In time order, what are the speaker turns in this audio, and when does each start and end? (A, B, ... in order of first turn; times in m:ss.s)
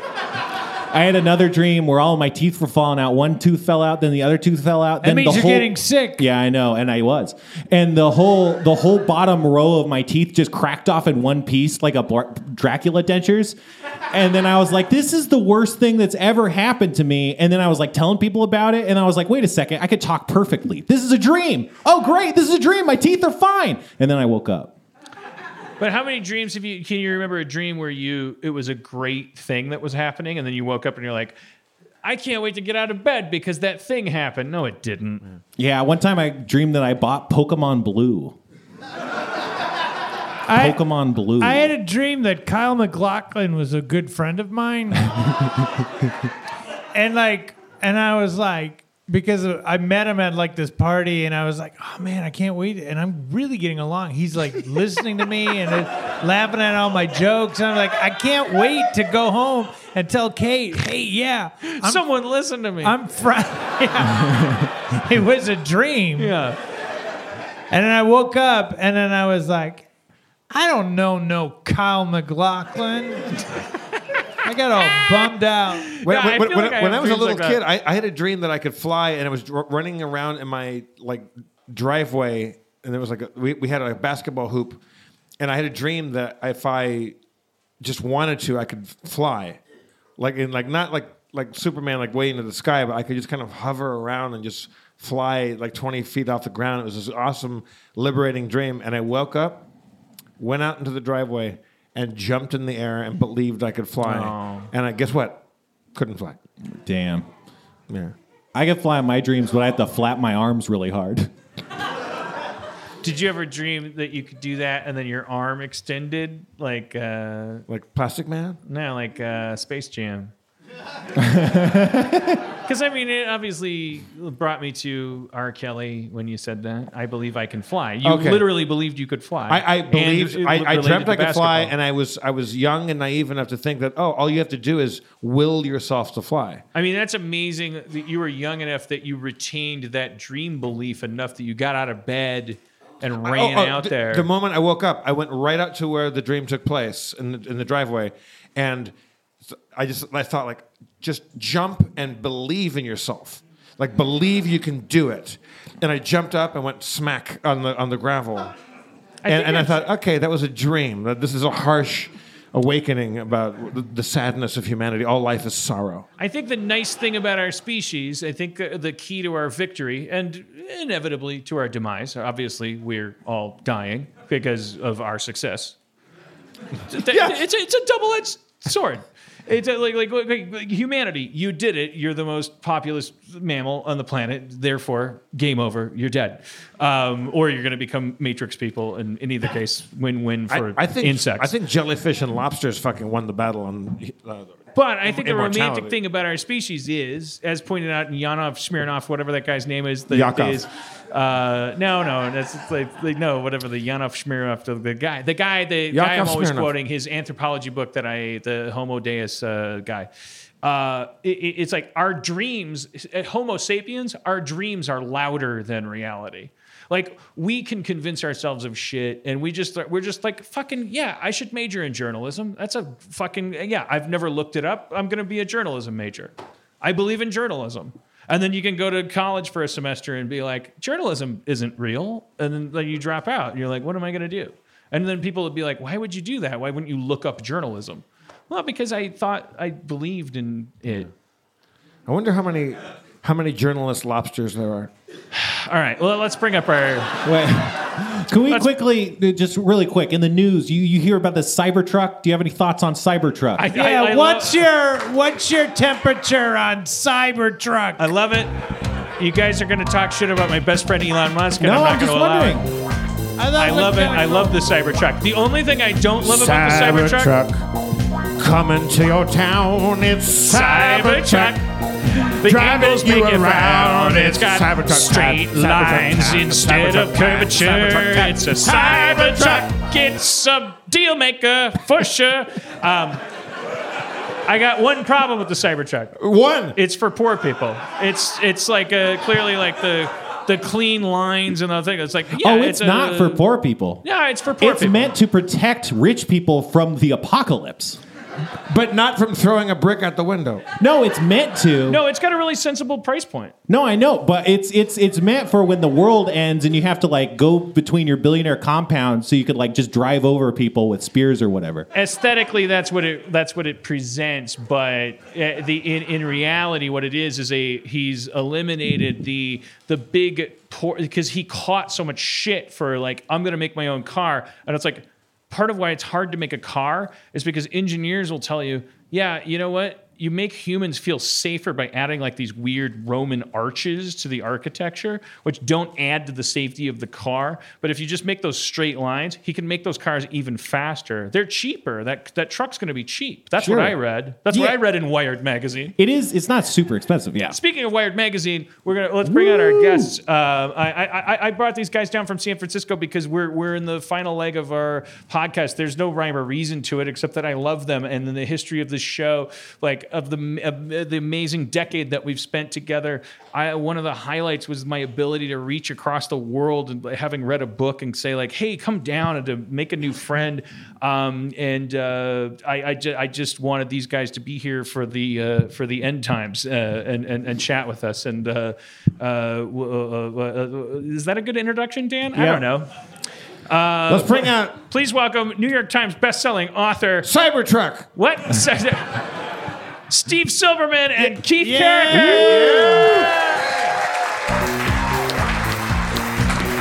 0:00.9-0:13.6 A
0:05.0-0:06.2 B
0:14.1-0:24.7 A
0:25.8-0:31.4 C
0:32.0-0:35.2 C
0:35.6-0:38.4 A
0:40.5-0:40.8 B
0:40.5-0:41.7 A
0:41.4-0:45.2 B
0:46.9-1:02.0 B
1:01.8-1:03.0 C
1:02.8-1:06.3 B
1:06.2-1:06.6 C
1:07.7-1:09.9 B
1:10.5-1:13.4 B
1:14.4-1:16.0 B
1:16.0-1:24.8 D
1:16.0-1:17.6 C
1:25.4-1:27.2 D
1:27.8-1:29.6 D
1:30.2-1:39.6 D
1:40.4-1:45.4 D
1:44.0-1:44.7 C
1:45.9-1:46.4 D
1:46.7-1:47.3 A
1:47.9-1:48.2 D
1:48.5-1:51.3 A
1:53.0-1:57.6 C
1:57.7-1:58.6 D
1:58.7-2:00.3 C
2:01.2-2:02.4 A
2:02.6-2:11.7 C
2:08.0-2:08.5 D
2:09.5-2:16.6 D
2:16.7-2:24.3 C
2:23.2-2:28.9 D
2:29.5-2:38.5 D
2:39.2-2:39.8 C
2:39.3-2:46.1 D
2:46.2-2:55.8 C
2:56.9-3:11.5 C
3:10.5-3:16.0 D
3:14.8-3:30.1 C
3:20.1-3:20.6 D
3:25.9-3:26.7 D
3:30.6-4:01.1 C
4:02.1-4:04.9 D
4:05.3-4:07.1 C
4:07.2-4:13.7 A
4:13.6-4:14.6 C
4:13.7-4:18.1 B
4:18.0-4:18.5 C
4:19.2-4:22.6 C
4:21.6-4:22.6 A
4:23.4-4:24.6 B
4:23.6-4:27.4 C
4:26.2-4:27.6 D
4:28.4-4:31.6 D
4:30.5-4:31.6 C
4:32.4-4:43.2 C
4:32.4-4:39.6 D
4:44.5-4:46.1 C
4:46.2-4:46.8 D
4:46.8-4:53.4 C
4:52.4-4:54.0 A
4:54.0-4:55.1 C
4:54.6-4:58.0 A
4:58.7-5:00.6 D
5:00.8-5:02.0 A
5:01.9-5:03.5 C
5:03.7-5:11.9 A
5:11.9-5:46.0 C
5:43.6-5:44.0 A
5:44.5-5:44.8 A
5:46.0-5:47.6 A
5:47.5-6:22.9 C
5:49.2-5:50.1 A
6:22.3-6:22.6 A
6:23.7-6:27.3 C
6:24.1-6:24.8 D
6:27.2-6:28.1 D
6:28.1-6:29.2 C
6:30.1-6:33.6 C
6:31.5-6:33.1 B
6:32.1-6:33.3 D